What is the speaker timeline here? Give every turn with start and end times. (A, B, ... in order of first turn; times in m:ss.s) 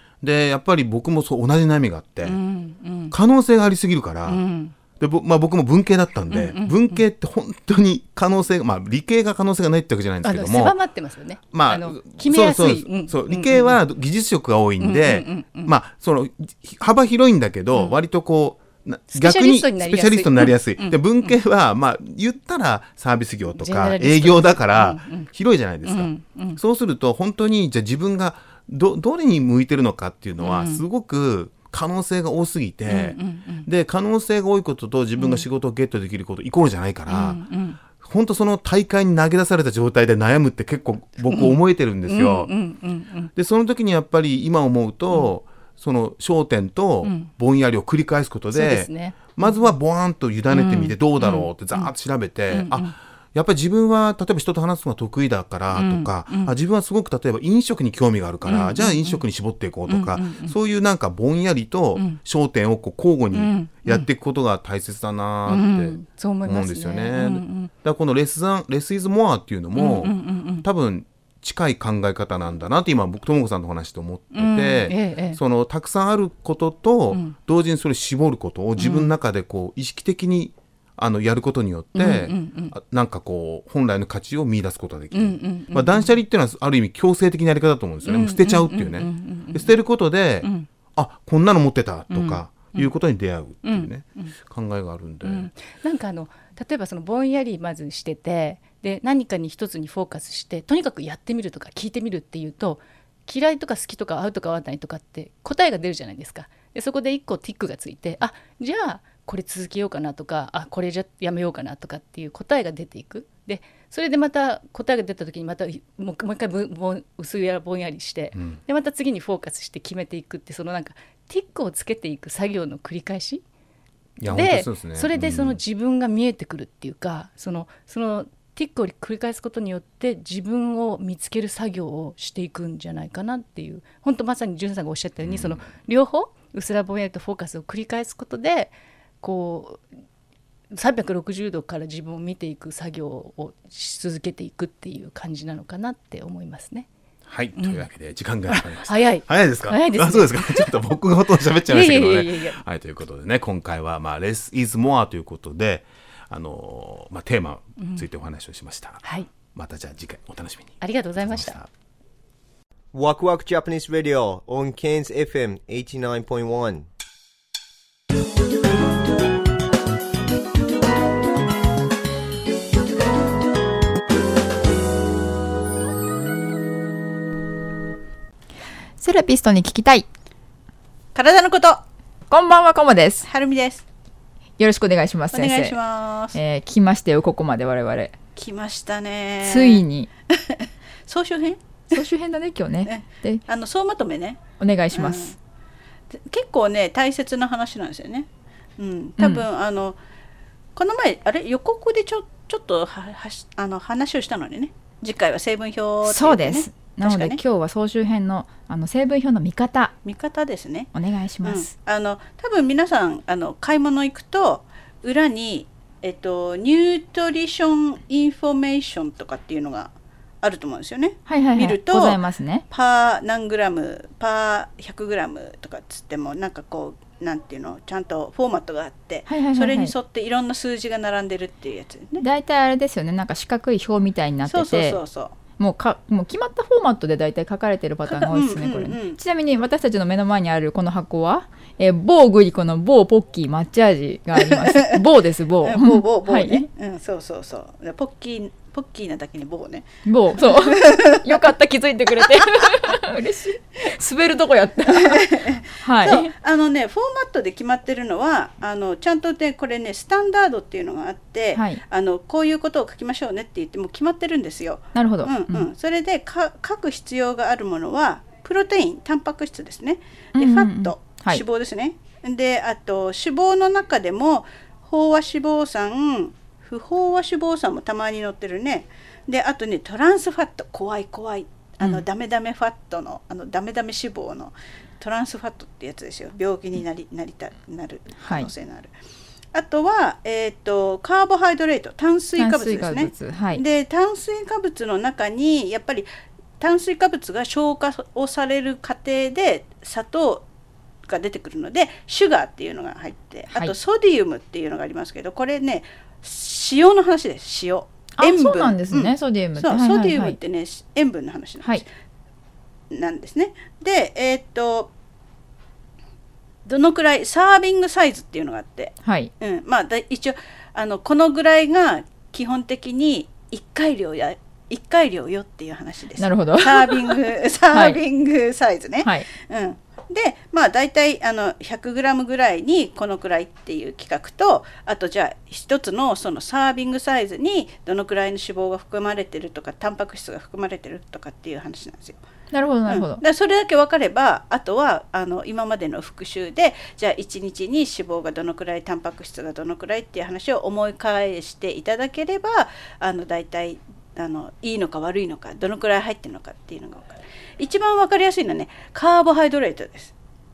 0:00.2-0:02.4 A
0:02.2-0:03.1 B
0:03.1-0:04.4 A
0:04.2-0:04.7 B
0:05.0-0:10.7 A
0:06.3-0:07.0 B
0:10.2-0:13.8 B
0:11.5-0:37.4 A
0:14.8-0:15.7 B
0:19.1-0:21.4 B
0:23.6-0:25.3 B
0:25.8-0:26.6 B
0:30.4-0:30.8 B
0:32.9-0:33.7 B
0:35.2-0:35.4 B
0:37.1-0:37.8 B
0:38.0-0:42.5 A
0:41.2-0:43.3 B
0:43.3-1:35.5 A
0:47.0-0:47.3 B
0:48.5-0:49.7 B
0:50.5-0:51.9 B
0:52.5-0:52.9 B
0:55.7-0:56.5 B
0:58.4-0:59.2 B
0:59.9-1:00.5 B
1:03.3-1:04.1 B
1:05.5-1:07.7 B
1:09.8-1:10.6 B
1:14.3-1:15.4 B
1:18.8-1:19.1 B
1:21.9-1:22.7 B
1:25.1-1:26.1 B
1:28.0-1:29.8 B
1:30.4-1:30.7 B
1:32.1-1:32.9 B
1:33.6-1:34.3 B
1:35.2-2:03.4 B
1:58.3-1:58.6 A
2:04.2-2:05.6 A
2:04.3-2:19.9 B
2:15.2-2:15.7 A
2:20.7-2:26.9 B
2:27.3-2:41.7 A
2:27.6-2:27.8 B
2:28.5-2:31.0 B
2:31.7-2:32.6 B
2:39.0-2:39.3 B
2:40.8-2:41.6 B
2:42.9-2:46.9 C
2:59.0-3:00.0 D
3:01.1-3:01.8 E
3:02.3-3:03.3 D
3:03.2-3:03.8 E
3:04.6-3:05.8 D
3:05.3-3:06.4 E
3:06.3-3:08.1 D
3:08.3-3:11.9 E
3:09.4-3:10.1 D
3:11.9-3:13.4 D
3:12.8-3:15.4 E
3:14.6-3:15.4 D
3:16.1-3:18.3 E
3:18.8-3:20.0 E
3:19.2-3:19.4 D
3:20.8-3:27.4 E
3:26.0-3:30.0 D
3:30.0-3:30.9 E
3:30.9-3:31.7 D
3:31.4-3:52.2 E
3:41.2-3:42.6 D
3:49.2-3:49.9 D
3:52.2-3:55.0 D
3:54.5-3:55.4 E
3:55.6-4:06.7 D
3:58.1-3:59.2 E
4:04.5-4:05.0 E
4:05.6-4:09.9 E
4:10.0-4:16.3 D
4:10.4-4:11.4 E
4:14.9-4:48.9 E
4:21.5-4:21.8 D
4:24.9-4:25.7 D
4:30.3-4:31.4 D
4:48.2-4:48.5 D
4:49.5-4:56.1 E
4:52.4-4:53.6 D
4:56.6-5:00.4 E
5:01.1-5:11.8 E
5:08.2-5:10.4 D
5:12.9-5:14.9 E
5:16.6-5:42.2 E
5:19.0-5:19.3 D
5:26.2-5:27.2 D
5:27.7-5:28.0 D
5:42.5-5:43.2 D
5:42.9-6:00.1 E